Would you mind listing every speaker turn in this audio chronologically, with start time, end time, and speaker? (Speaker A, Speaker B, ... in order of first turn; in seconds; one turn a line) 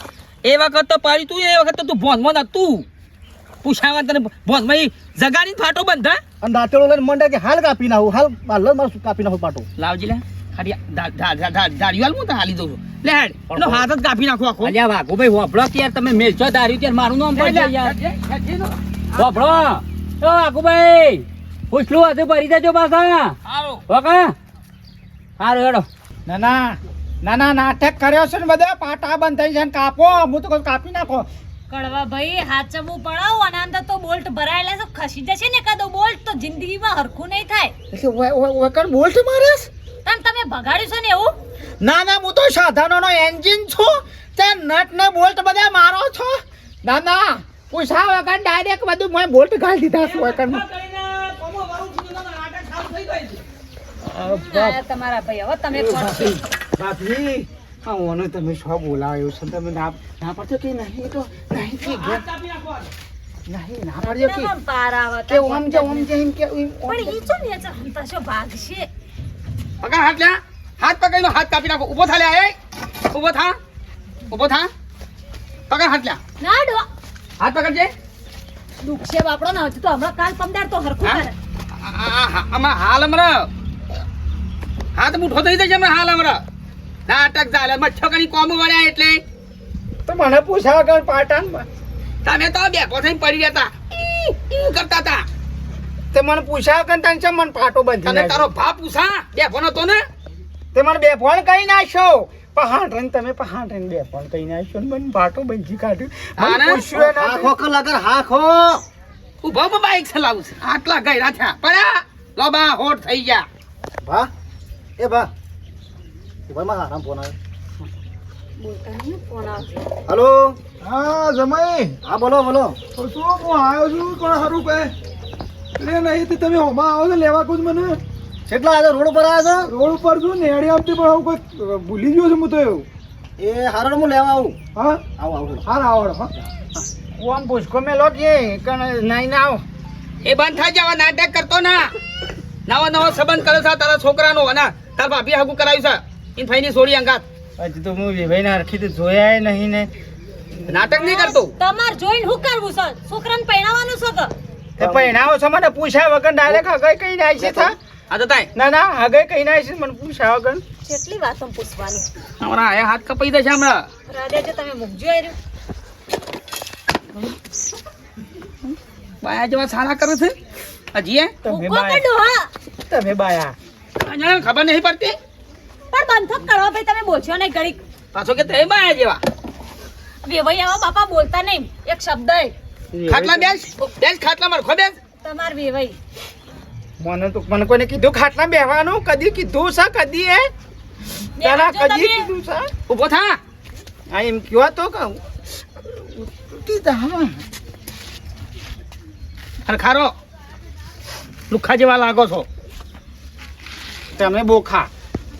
Speaker A: 0.4-2.8
Speaker A: 3.6-6.2
Speaker B: 6.4-9.7
Speaker A: 9.8-14.8
Speaker C: 13.6-13.8
Speaker C: 14.6-17.9
Speaker A: 17.4-19.4
Speaker C: 19.1-23.3
Speaker A: 23.4-23.8
Speaker C: 23.9-24.3
Speaker C: 25.4-25.8
Speaker D: 26.2-31.3
Speaker E: 31.7-37.7
Speaker D: 37.9-39.7
Speaker E: 40.0-41.3
Speaker D: 41.8-50.6
Speaker A: 50.0-53.4
Speaker D: 54.0-54.8
Speaker E: 54.2-56.4
Speaker D: 55.7-62.2
Speaker A: 61.8-62.9
Speaker D: 63.5-64.5
Speaker E: 64.0-66.1
Speaker D: 65.3-67.2
Speaker E: 66.9-68.9
Speaker A: 69.8-72.5
Speaker A: 73.1-73.6
Speaker A: 74.3-74.7
Speaker A: 75.7-76.2
Speaker E: 76.4-76.9
Speaker A: 77.4-77.9
Speaker E: 78.8-81.3
Speaker A: 81.8-83.5
Speaker A: 85.0-86.4
Speaker A: 87.1-89.2
Speaker D: 90.1-91.7
Speaker A: 92.2-95.2
Speaker D: 96.1-98.5
Speaker A: 98.0-100.0
Speaker D: 100.7-107.5
Speaker A: 106.4-106.8
Speaker B: 106.9-108.8
Speaker A: 109.4-113.5
Speaker B: 114.0-114.3
Speaker B: 115.0-115.3
Speaker B: 116.5-117.3
Speaker E: 118.6-119.8
Speaker B: 120.1-120.6
Speaker F: 120.8-122.0
Speaker B: 122.0-122.8
Speaker F: 122.9-124.9
Speaker F: 125.8-128.0
Speaker B: 128.5-129.7
Speaker F: 129.6-132.9
Speaker B: 133.4-134.6
Speaker F: 134.7-135.0
Speaker B: 135.2-135.7
Speaker F: 135.6-136.3
Speaker D: 137.2-139.6
Speaker A: 140.2-141.9
Speaker A: 142.7-147.2
Speaker D: 147.6-149.9
Speaker A: 150.7-151.5
Speaker E: 150.9-154.3
Speaker D: 154.8-157.8
Speaker B: 154.8-155.2
Speaker A: 158.1-158.5
Speaker D: 158.5-160.6
Speaker E: 160.8-162.1
Speaker A: 162.4-163.9
Speaker E: 164.1-165.3
Speaker A: 169.2-170.3
Speaker A: 170.9-171.3
Speaker D: 171.4-172.0
Speaker E: 171.4-172.5
Speaker D: 172.9-173.5
Speaker A: 174.0-175.2
Speaker E: 175.9-177.8
Speaker A: 178.1-179.2
Speaker E: 180.2-182.5
Speaker D: 182.9-183.5
Speaker A: 183.1-185.0
Speaker E: 185.2-185.9
Speaker D: 187.0-190.5
Speaker E: 191.4-192.3
Speaker D: 191.4-192.7
Speaker A: 192.9-193.4
Speaker D: 194.1-195.2
Speaker D: 195.8-197.4
Speaker A: 199.7-200.1
Speaker A: 201.5-202.4
Speaker D: 204.2-204.9